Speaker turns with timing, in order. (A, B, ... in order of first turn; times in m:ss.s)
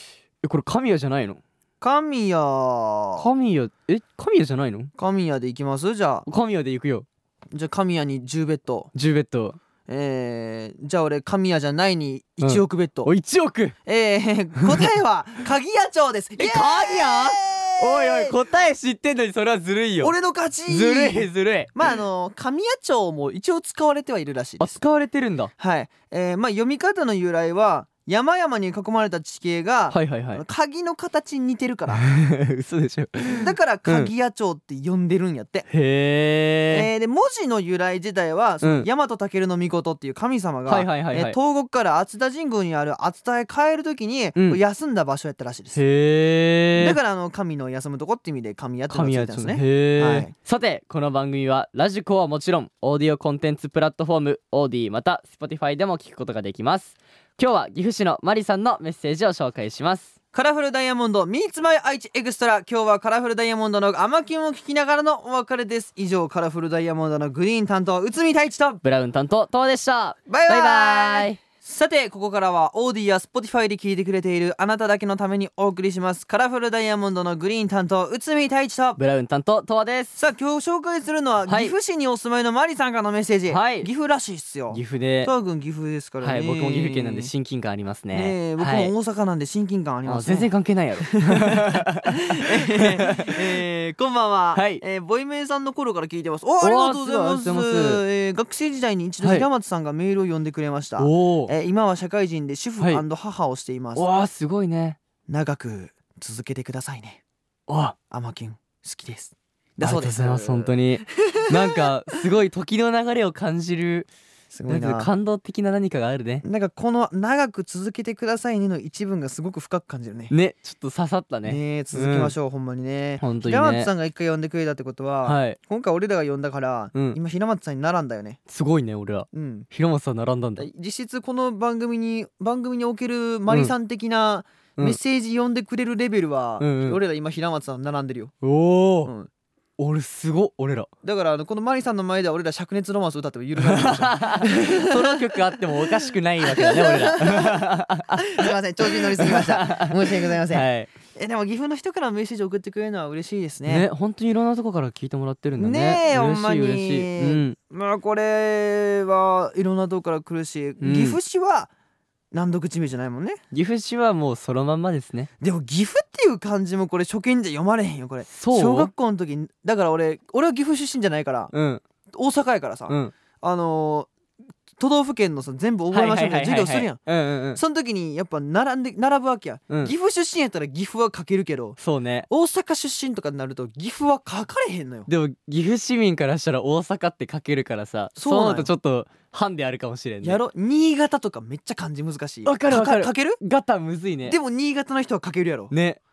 0:00.4-0:01.4 A
0:01.8-0:03.3 B
0:03.2-0:04.9 A
0:05.0-0:06.2 B
0:06.2-0:07.0 A
0:07.5-0:08.9 B
0:08.9-0:09.6 A
0:09.9-0:13.1 B
0:12.4-0:13.8 A
0:13.8-0:18.4 B
0:14.6-0:14.8 A
0:16.4-0:20.1 A
0:20.0-0:24.8 B
0:20.6-0:21.9 A
0:24.6-0:25.5 A
0:25.6-0:32.0 B
0:29.9-0:30.4 A
0:31.9-0:34.1 A
0:33.4-0:35.7 B
0:35.7-0:36.9 A
0:36.7-0:45.8 B
0:40.7-0:41.4 A
0:45.7-0:47.0 A
0:46.8-0:50.3 B
0:48.9-1:00.1 A
1:00.3-1:08.8 B
1:08.8-1:11.4 A
1:10.3-1:19.0 B
1:19.0-1:20.2 A
1:20.2-1:27.3 B
1:21.5-1:21.7 A
1:23.5-1:23.9 A
1:24.7-1:25.3 A
1:26.2-1:28.9 A
1:28.1-1:44.0 B
1:30.0-1:32.0 A
1:32.8-1:33.3 A
1:34.5-1:34.8 A
1:36.6-1:38.0 A
1:41.0-1:41.5 A
1:42.8-1:43.0 A
1:44.0-1:45.0 A
1:45.3-1:47.2 B
1:47.7-1:48.0 A
1:48.1-1:51.9 B
1:49.8-1:54.1 A
1:54.5-1:55.1 B
1:54.7-1:56.4 A
1:56.4-2:00.3 B
2:00.3-2:02.3 A
2:01.4-2:08.4 B
2:03.2-2:03.9 A
2:05.2-2:05.6 A
2:08.5-2:10.7 A
2:09.3-2:09.7 B
2:10.6-2:18.3 B
2:16.6-2:17.0 A
2:18.4-2:19.1 A
2:19.0-2:19.3 B
2:19.8-2:20.9 A
2:21.0-2:33.9 B
2:23.6-2:30.9 A
2:33.6-2:37.6 A
2:35.6-2:41.7 B
2:40.8-2:41.2 A
2:42.3-2:43.4 B
2:43.5-2:45.3 A
2:45.4-2:51.5 B
2:48.3-2:48.9 A
2:51.5-2:51.8 A
2:52.1-2:54.1 B
2:52.9-2:53.1 A
2:54.8-2:57.0 B
2:55.9-2:57.6 A
2:57.5-3:05.1 B
3:01.8-3:02.3 A
3:05.1-3:10.4 A
3:08.2-3:08.7 B
3:10.2-3:13.4 B
3:12.4-3:14.4 A
3:14.2-3:15.7 B
3:15.7-3:16.0 A